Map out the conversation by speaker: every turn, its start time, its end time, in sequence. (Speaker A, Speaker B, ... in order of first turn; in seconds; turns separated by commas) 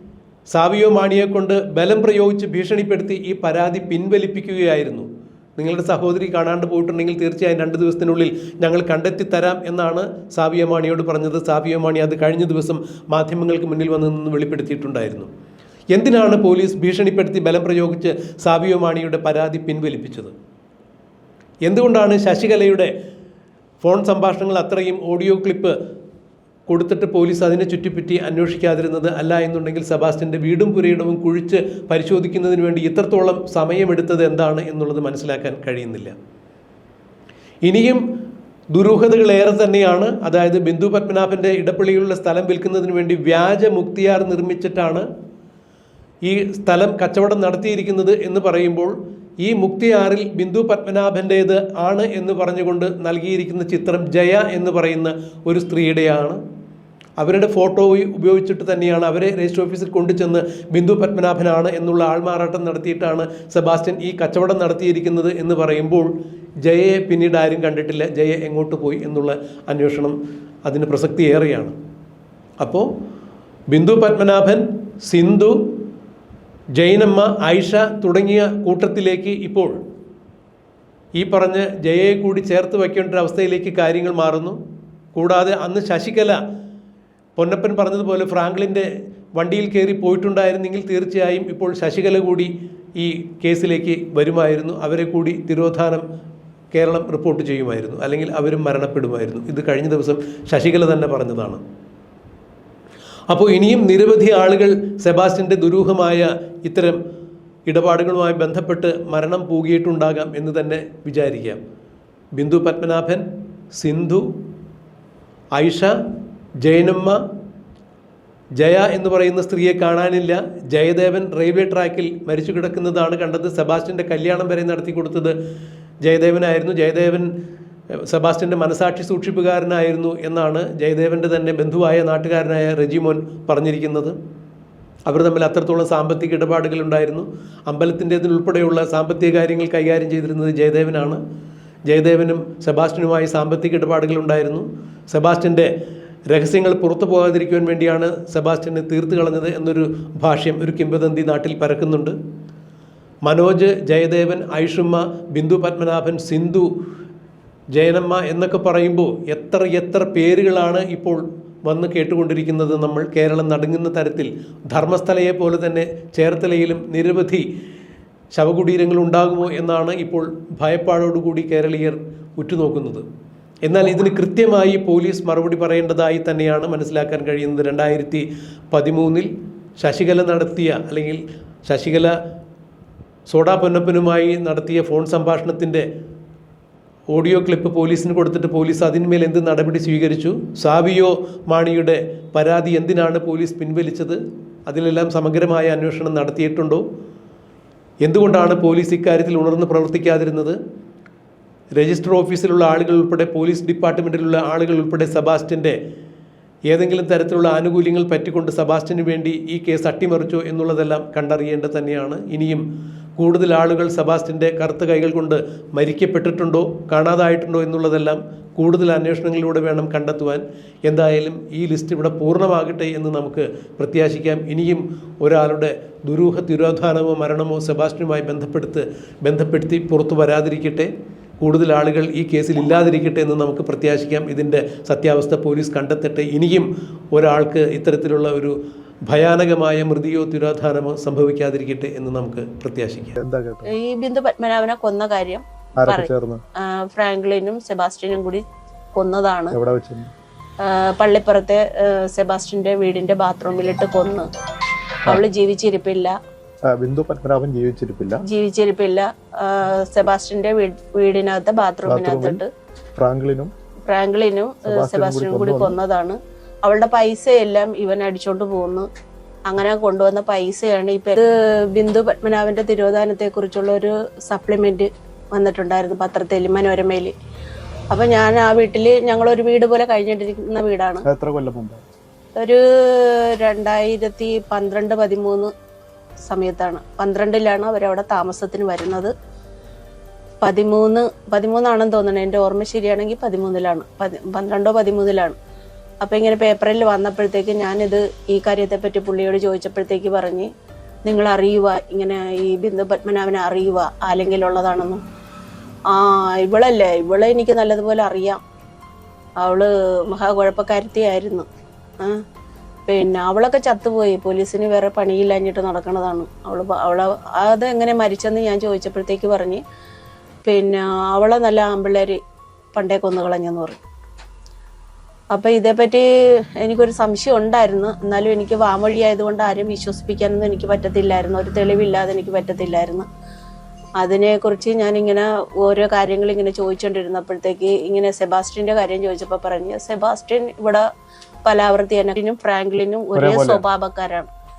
Speaker A: 0.5-15.3, Speaker A: 15.9-20.3, Speaker A: 21.6-22.9, Speaker A: 23.8-25.8, Speaker A: 26.7-36.1, Speaker A: 37.6-38.0, Speaker A: 38.7-45.0, Speaker A: 46.2-56.4, Speaker A: 57.2-66.1, Speaker A: 66.6-70.2, Speaker A: 70.7-71.7, Speaker A: 72.6-72.9, Speaker A: 73.7-75.6, Speaker A: 76.8-79.8, Speaker A: 81.2-84.6, Speaker A: 85.2-86.4, Speaker A: 87.4-96.0, Speaker A: 96.7-101.6, Speaker A: 103.3-107.0, Speaker A: 107.7-111.6, Speaker A: 112.4-114.2, Speaker A: 115.5-115.9, Speaker A: 116.6-117.2, Speaker A: 118.6-125.3, Speaker A: 126.0-127.3, Speaker A: 128.1-134.2, Speaker A: 135.1-141.2, Speaker A: 141.9-145.7, Speaker A: 146.3-152.2, Speaker A: 153.2-156.7, Speaker A: 157.8-167.4, Speaker A: 168.3-173.1, Speaker A: 173.7-179.3, Speaker A: 179.8-182.1, Speaker A: 183.3-185.9, Speaker A: 187.1-196.8, Speaker A: 198.0-200.6, Speaker A: 201.8-205.8, Speaker A: 206.7-212.6, Speaker A: 213.2-238.6, Speaker A: 239.1-243.2, Speaker B: 243.2-243.7, Speaker C: 243.7-246.1, Speaker B: 245.8-246.4, Speaker C: 246.7-248.4, Speaker C: 249.0-249.6, Speaker B: 249.5-250.1, Speaker C: 250.6-254.3, Speaker C: 255.1-256.1, Speaker B: 256.8-258.2, Speaker C: 258.3-262.5, Speaker B: 261.9-262.4, Speaker B: 263.0-263.5, Speaker C: 263.9-268.9, Speaker B: 264.7-265.8, Speaker C: 269.5-277.1, Speaker C: 277.9-281.1, Speaker B: 281.1-281.8, Speaker C: 282.4-285.5, Speaker C: 286.3-289.1, Speaker C: 290.4-295.4, Speaker C: 296.0-300.5, Speaker C: 301.1-305.0, Speaker C: 305.9-308.4, Speaker C: 309.4-311.4, Speaker C: 312.9-319.6, Speaker C: 320.5-322.2, Speaker C: 322.8-323.8, Speaker C: 325.4-326.0, Speaker C: 326.6-333.1, Speaker C: 334.0-340.8, Speaker C: 341.4-344.3, Speaker B: 343.2-343.6